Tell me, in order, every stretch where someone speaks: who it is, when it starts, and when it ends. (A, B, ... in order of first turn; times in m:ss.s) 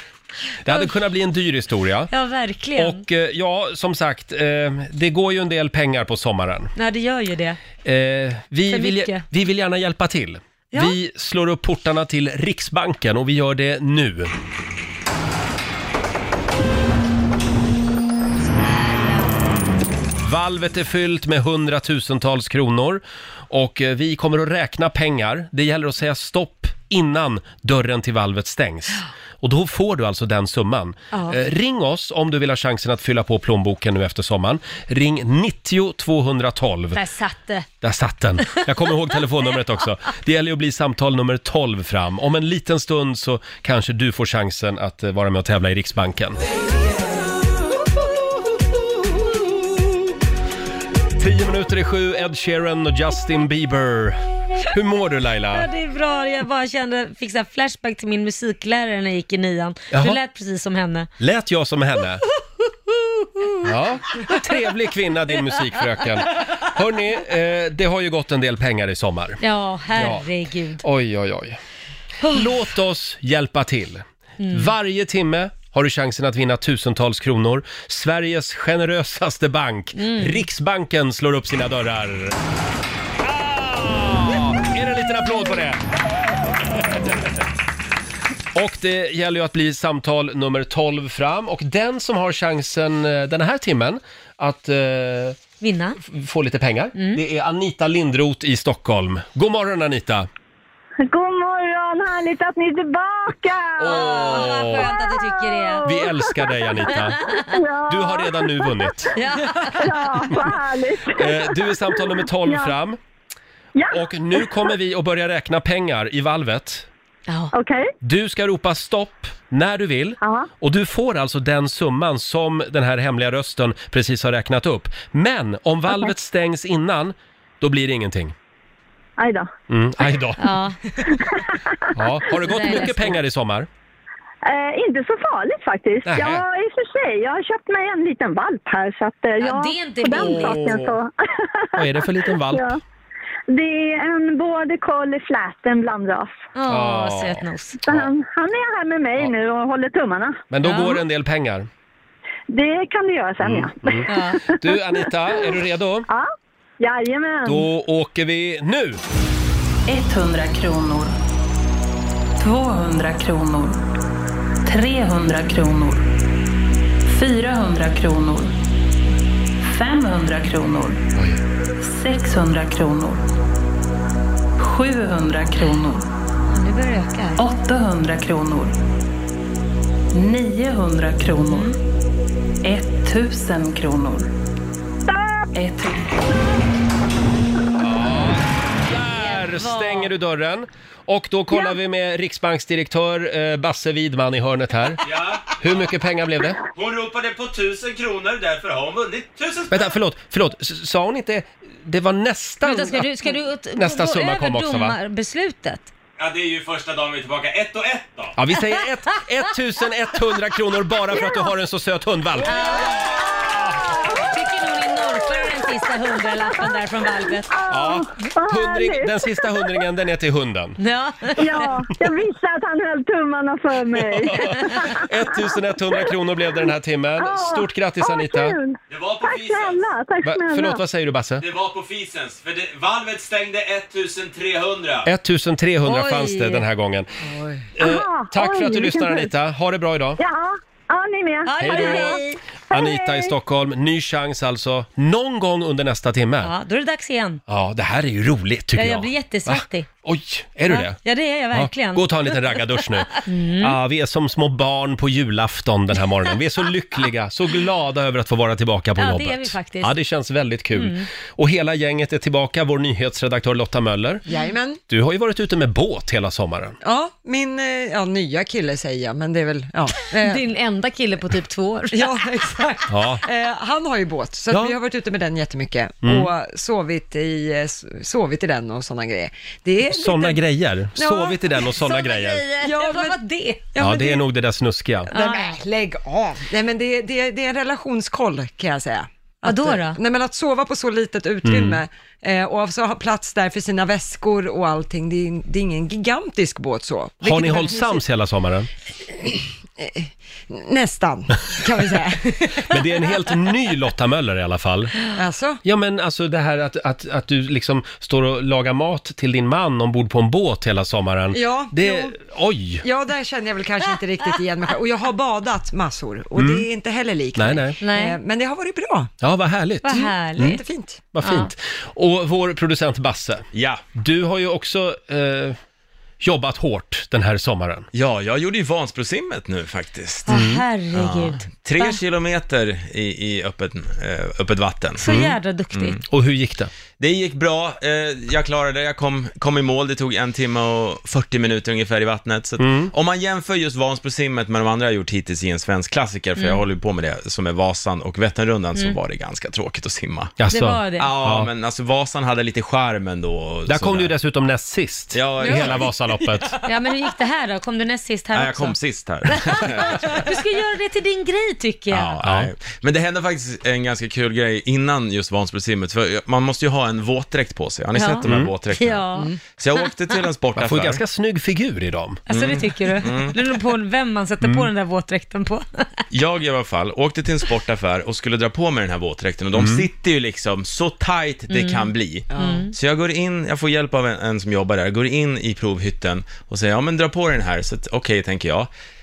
0:00.6-0:02.1 A
0:02.1-0:03.0 B
0:02.8-0:06.7 A
0:06.8-0:07.6 B
0:07.8-0:14.3 A
0:08.7-0:09.2 B
0:20.2-0:37.0 A
0:31.1-0:31.4 B
0:36.9-0:37.7 B
0:37.8-0:46.4 A
0:51.2-0:55.7 A
0:55.5-1:01.1 B
0:59.9-1:00.2 A
1:01.2-1:02.2 A
1:02.9-1:03.6 B
1:03.6-1:09.4 A
1:09.4-1:10.8 B
1:10.0-1:10.3 A
1:10.8-1:11.6 A
1:12.3-1:22.4 A
1:14.4-1:14.7 B
1:20.0-1:20.4 B
1:23.2-1:25.8 A
1:26.9-1:27.2 A
1:28.6-1:35.4 A
1:35.6-1:36.0 B
1:36.0-1:40.3 A
1:37.0-1:37.2 B
1:41.0-1:48.8 C
1:43.8-1:44.9 A
1:43.9-1:45.9 B
1:45.8-1:47.3 A
1:47.9-1:49.1 A
1:49.2-1:50.3 B
1:49.8-1:52.7 C
1:51.1-1:53.0 A
1:53.8-1:54.5 C
1:53.9-1:56.9 A
1:57.3-1:57.5 B
1:57.5-1:57.9 C
1:58.0-2:08.4 A
2:00.2-2:00.5 C
2:09.2-2:09.5 C
2:09.7-2:10.5 A
2:10.4-2:10.8 B
2:11.1-2:11.6 C
2:11.9-2:13.7 A
2:12.4-2:13.2 B
2:14.4-2:21.9 C
2:16.0-2:16.4 A
2:19.4-2:20.8 B
2:20.2-2:20.9 A
2:21.8-2:22.8 A
2:22.5-2:22.8 C
2:23.5-2:26.4 C
2:26.6-2:27.8 B
2:26.7-2:28.1 A
2:27.9-2:30.4 C
2:30.5-2:31.7 A
2:30.6-2:31.0 B
2:32.5-2:34.2 C
2:33.4-2:36.1 A
2:34.1-2:34.4 B
2:36.8-2:37.6 C
2:37.4-2:39.0 A
2:39.9-2:41.2 D
2:42.4-2:43.8 D
2:44.6-2:46.0 D
2:47.1-2:48.5 D
2:49.6-2:51.0 D
2:51.8-2:53.2 D
2:54.6-2:56.1 D
2:56.5-2:57.4 B
2:57.4-2:58.8 D
3:00.1-3:01.8 D
3:01.5-3:01.8 B
3:02.6-3:04.3 D
3:05.1-3:05.4 C
3:05.5-3:06.2 D
3:07.8-3:15.0 A
3:09.1-3:10.1 B
3:15.0-3:15.6 E
3:15.6-3:16.6 A
3:16.7-3:19.9 E
3:19.7-3:25.0 A
3:22.6-3:25.9 B
3:26.2-3:28.3 E
3:28.4-3:34.1 A
3:32.4-3:33.2 B
3:33.2-3:34.3 C
3:34.1-3:37.5 B
3:37.5-3:39.6 C
3:37.7-3:40.8 A
3:40.8-3:41.7 B
3:41.4-3:45.5 C
3:43.9-3:48.6 A
3:47.2-3:50.8 C
3:48.9-3:49.9 E
3:50.2-3:51.4 A
3:51.4-3:55.1 E
3:55.1-3:57.1 A
3:55.8-3:56.7 B
3:57.2-3:57.6 F
3:57.8-4:00.2 A
3:57.8-3:59.3 C
4:00.2-4:02.2 C
4:01.5-4:02.4 B
4:01.6-4:06.5 A
4:02.7-4:03.3 C
4:06.4-4:07.4 B
4:07.5-4:11.0 A
4:08.8-4:09.9 B
4:10.7-4:13.8 B
4:11.5-4:24.2 A
4:19.0-4:20.0 B
4:20.7-4:21.1 B
4:24.3-4:24.8 F
4:24.9-4:26.8 A
4:26.8-4:30.5 F
4:30.2-4:32.2 B
4:31.9-4:40.4 F
4:32.9-4:33.2 A
4:34.5-4:34.8 A
4:36.0-4:36.3 A
4:39.8-4:42.4 A
4:41.0-4:41.7 F
4:41.7-4:43.7 B
4:42.6-4:43.2 F
4:43.7-4:44.2 F
4:43.8-4:45.1 A
4:45.1-4:45.6 B
4:45.1-4:58.0 F
4:49.4-4:50.0 B
4:51.4-4:51.8 A
4:57.2-4:58.7 A
4:59.2-5:03.0 F
5:02.6-5:05.1 A
5:05.1-5:05.6 F
5:05.6-5:12.8 A
5:11.3-5:12.2 F
5:12.8-5:19.1 F
5:16.4-5:16.7 A
5:17.4-5:17.8 A
5:17.8-5:18.2 B
5:19.2-5:20.6 A
5:19.8-5:20.6 B
5:20.4-5:21.0 F
5:21.1-5:25.6 A
5:21.2-5:21.5 B
5:23.5-5:23.8 E
5:26.2-5:27.9 A
5:27.9-5:30.3 E
5:30.3-5:32.0 B
5:30.3-5:30.6 A
5:30.9-5:35.1 E
5:35.0-5:36.0 B
5:35.1-5:35.3 A
5:35.7-5:36.0 E
5:36.1-5:36.7 A
5:37.0-5:50.3 E
5:42.6-5:42.9 A
5:50.4-5:51.5 A
5:50.5-5:51.1 B
5:51.0-5:54.1 E
5:53.7-5:56.5 A
5:55.1-5:55.9 E
5:56.6-5:58.8 B
5:58.3-6:00.3 E
5:59.3-6:02.2 B
6:01.9-6:11.0 E
6:02.2-6:02.5 A
6:08.0-6:09.3 B
6:10.6-6:12.2 A
6:12.3-6:16.0 B
6:12.3-6:13.4 E
6:16.1-6:28.7 E
6:19.6-6:19.9 A
6:21.5-6:22.7 B
6:22.3-6:22.7 F